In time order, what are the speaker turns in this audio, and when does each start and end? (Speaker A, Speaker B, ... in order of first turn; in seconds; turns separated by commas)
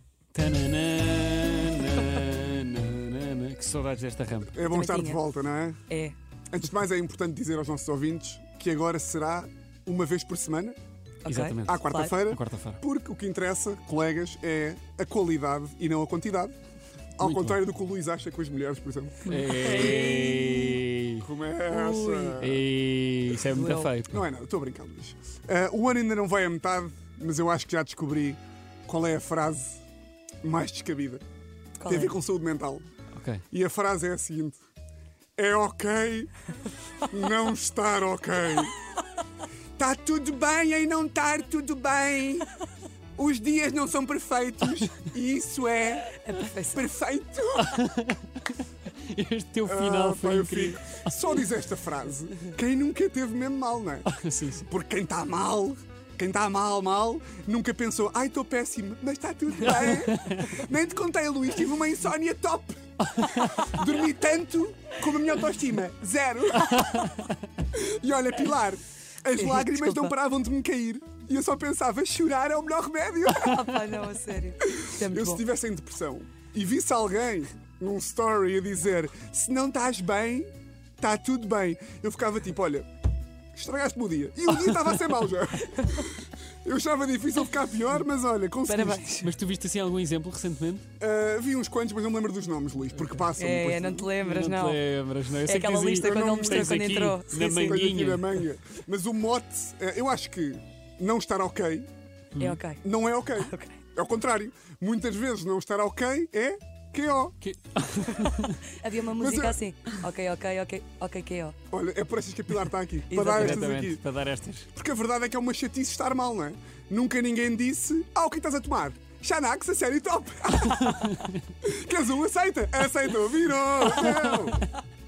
Speaker A: 0.3-4.5, Speaker B: 4.5-5.8, Speaker C: 4.7-5.2, Speaker C: 5.9-6.1, Speaker B: 6.5-10.8, Speaker C: 11.2-12.1, Speaker A: 11.2-12.8, Speaker B: 11.7-16.5, Speaker B: 17.2-20.0, Speaker A: 17.2-17.6, Speaker A: 19.2-21.2, Speaker C: 19.3-20.8, Speaker B: 21.2-22.6, Speaker C: 21.7-22.4, Speaker A: 22.4-24.2, Speaker C: 23.4-23.9, Speaker B: 24.1-29.8, Speaker B: 30.4-31.2, Speaker C: 31.8-32.1, Speaker B: 31.9-32.8, Speaker A: 33.1-33.4, Speaker B: 33.5-34.6, Speaker B: 35.4-36.3, Speaker B: 37.0-38.8, Speaker B: 39.8-42.5, Speaker B: 43.1-46.2, Speaker C: 46.2-46.9, Speaker B: 46.7-47.8, Speaker A: 47.6-51.1, Speaker B: 49.6-54.1, Speaker A: 54.0-54.6, Speaker B: 54.6-73.8, Speaker A: 59.7-60.5, Speaker A: 63.1-63.7, Speaker C: 69.3-70.1, Speaker C: 73.3-75.4, Speaker B: 74.7-82.9, Speaker B: 83.5-89.1, Speaker C: 88.7-89.3, Speaker A: 89.2-90.8, Speaker B: 91.0-94.1, Speaker A: 93.0-93.3, Speaker C: 93.4-94.8, Speaker A: 94.2-98.4, Speaker C: 95.4-97.8, Speaker B: 96.0-101.9, Speaker A: 102.3-102.6, Speaker C: 102.4-102.8, Speaker B: 102.8-107.3, Speaker C: 103.3-103.8, Speaker A: 107.4-108.6, Speaker C: 108.6-111.5, Speaker B: 109.2-109.6, Speaker B: 111.7-114.0, Speaker C: 113.1-113.7, Speaker A: 113.1-114.7, Speaker B: 114.7-124.7, Speaker A: 120.7-121.4, Speaker A: 123.9-124.5